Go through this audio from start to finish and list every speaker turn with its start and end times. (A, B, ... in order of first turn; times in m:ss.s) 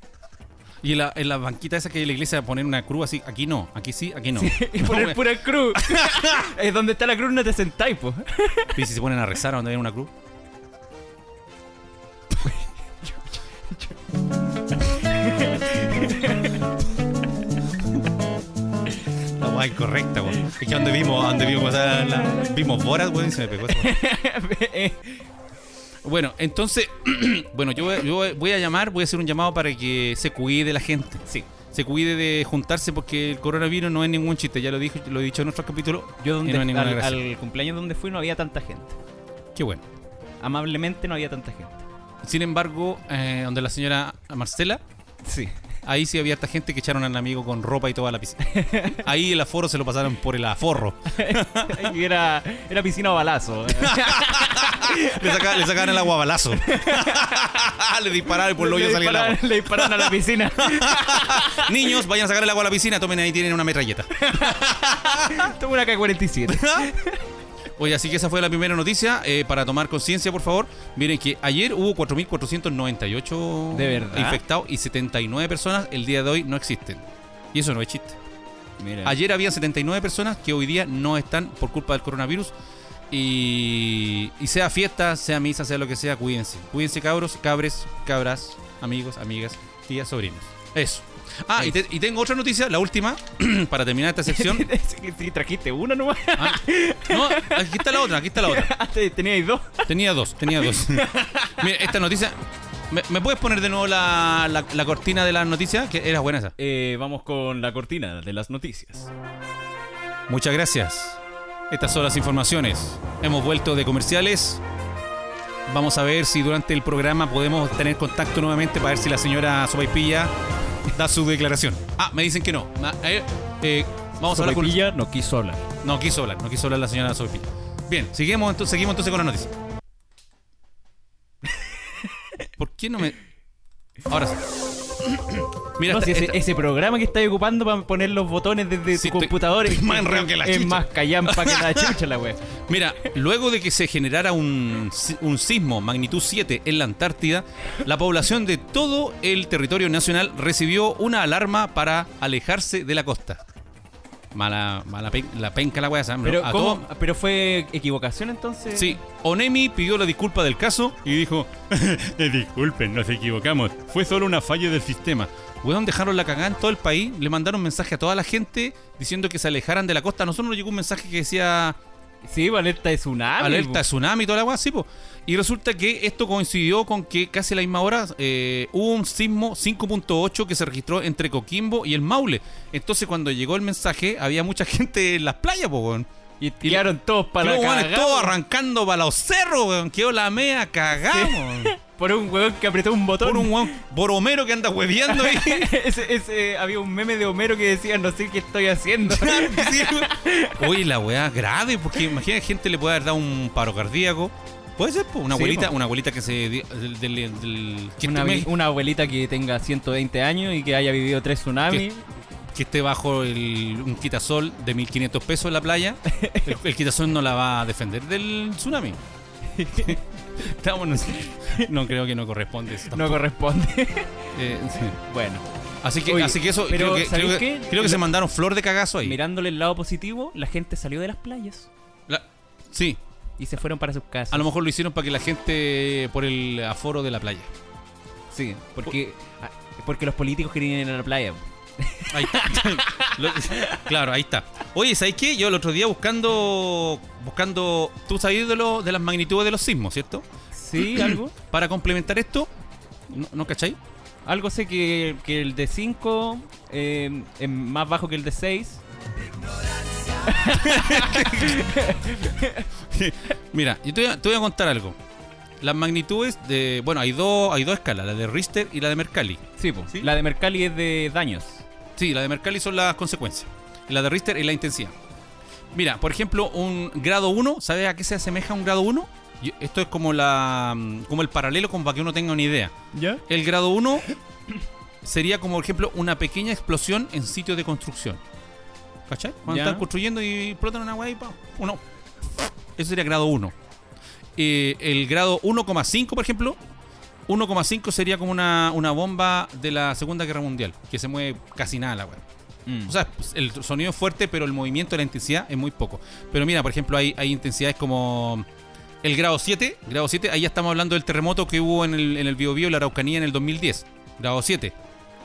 0:00.8-0:06.5 A
0:04.4-0:08.8 B
0:08.8-0:10.1 A
0:12.4-0:14.0 B
0:14.8-0:16.7 B
0:19.4-0:24.0 A
0:23.7-0:25.3 B
0:26.0-0:37.2 A
0:36.2-0:39.0 B
0:39.6-0:39.8 A
0:40.4-0:41.8 B
0:42.2-0:44.8 A
0:45.2-0:45.5 B
0:45.8-0:52.0 A
0:48.4-0:49.0 B
0:51.1-0:56.0 B
0:53.8-1:05.5 A
0:56.6-0:57.4 B
0:58.6-1:01.7 B
1:04.2-1:07.2 B
1:06.5-1:06.9 A
1:07.8-1:18.2 A
1:13.7-1:14.4 B
1:18.8-1:19.2 B
1:19.0-1:22.5 A
1:23.1-1:34.7 A
1:34.3-1:39.9 B
1:36.4-1:38.7 A
1:39.9-1:42.4 A
1:40.6-1:41.6 B
1:42.9-1:46.5 A
1:46.6-1:49.1 B
1:50.3-1:54.6 A
1:55.7-2:00.3 A
2:00.9-2:04.8 A
2:04.3-2:05.7 B
2:05.8-2:09.5 A
2:12.6-2:13.2 A
2:14.1-2:14.5 A
2:15.0-2:16.4 A
2:15.9-2:22.4 B
2:18.9-2:22.0 A
2:22.7-2:33.4 A
2:34.3-2:36.9 A
2:36.2-2:39.0 B
2:38.7-2:51.8 A
2:52.3-2:53.8 B
2:53.4-3:06.1 A
3:06.4-3:08.4 B
3:06.6-3:11.7 A
3:11.0-3:13.8 B
3:13.2-3:15.8 A
3:15.1-3:20.6 B
3:19.0-3:28.5 A
3:25.3-3:25.7 B
3:28.0-3:32.0 B
3:32.5-3:39.0 A
3:36.1-3:36.5 B
3:39.5-3:40.0 B
3:39.8-3:43.2 A
3:41.1-3:41.7 B
3:42.9-3:44.4 B
3:44.3-3:45.0 A
3:45.0-3:45.4 B
3:45.8-3:49.2 A
3:46.0-3:48.1 B
3:49.0-3:51.7 B
3:52.1-3:53.0 A
3:53.4-3:54.5 B
3:54.3-3:57.5 A
3:58.3-4:03.8 B
4:02.1-4:10.3 A
4:10.5-4:11.3 B
4:10.8-4:12.5 A
4:13.1-4:13.8 A
4:14.3-4:18.8 B
4:20.3-4:22.7 B
4:20.5-4:21.6 A
4:22.9-4:25.0 A
4:25.6-4:30.1 A
4:29.6-4:31.6 B
4:32.0-4:34.9 A
4:35.7-4:42.7 A
4:42.9-4:43.2 B
4:43.3-4:44.1 A
4:45.0-4:48.2 A
4:49.1-4:51.8 A
4:49.5-4:49.9 B
4:52.4-4:53.6 A
4:54.4-4:56.6 A
4:57.3-5:02.2 A
5:02.7-5:03.0 B
5:02.9-5:08.5 A
5:09.0-5:14.8 A